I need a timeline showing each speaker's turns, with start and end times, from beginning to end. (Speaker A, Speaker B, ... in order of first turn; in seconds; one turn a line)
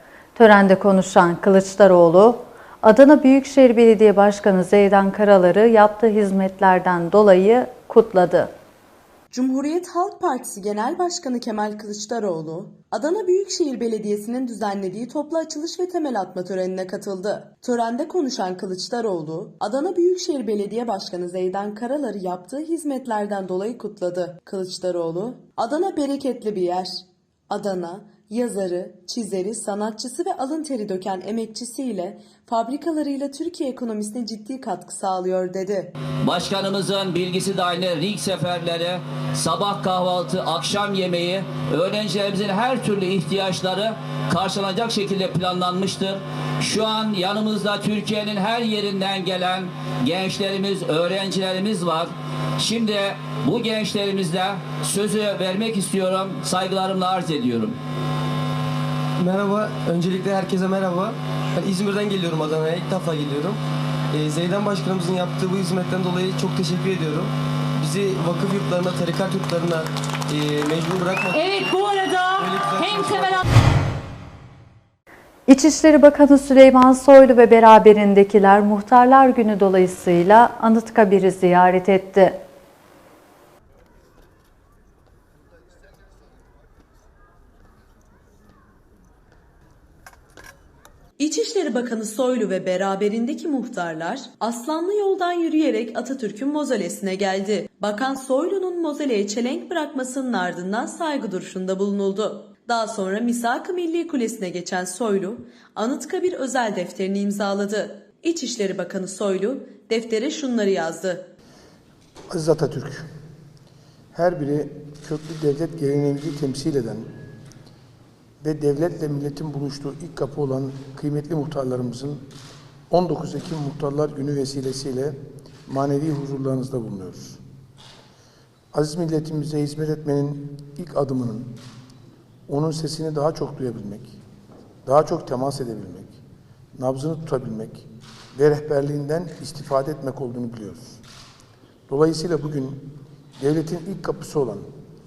Speaker A: 0.3-8.5
Speaker B: 9.3-35.9
Speaker C: 36.2-57.8
Speaker D: 59.2-63.6
Speaker D: 64.1-71.7
Speaker E: 71.3-73.4
Speaker D: 72.4-73.4
Speaker A: 75.5-82.4
Speaker B: 91.2-111.3
Speaker F: 112.3-113.1
Speaker F: 114.1-117.1
Speaker F: 118.4-122.2
Speaker F: 122.9-125.2
Speaker F: 125.7-127.4
Speaker F: 128.7-131.6
Speaker F: 132.5-134.2
Speaker F: 134.8-136.2
Speaker F: 136.8-141.0
Speaker F: 141.9-144.7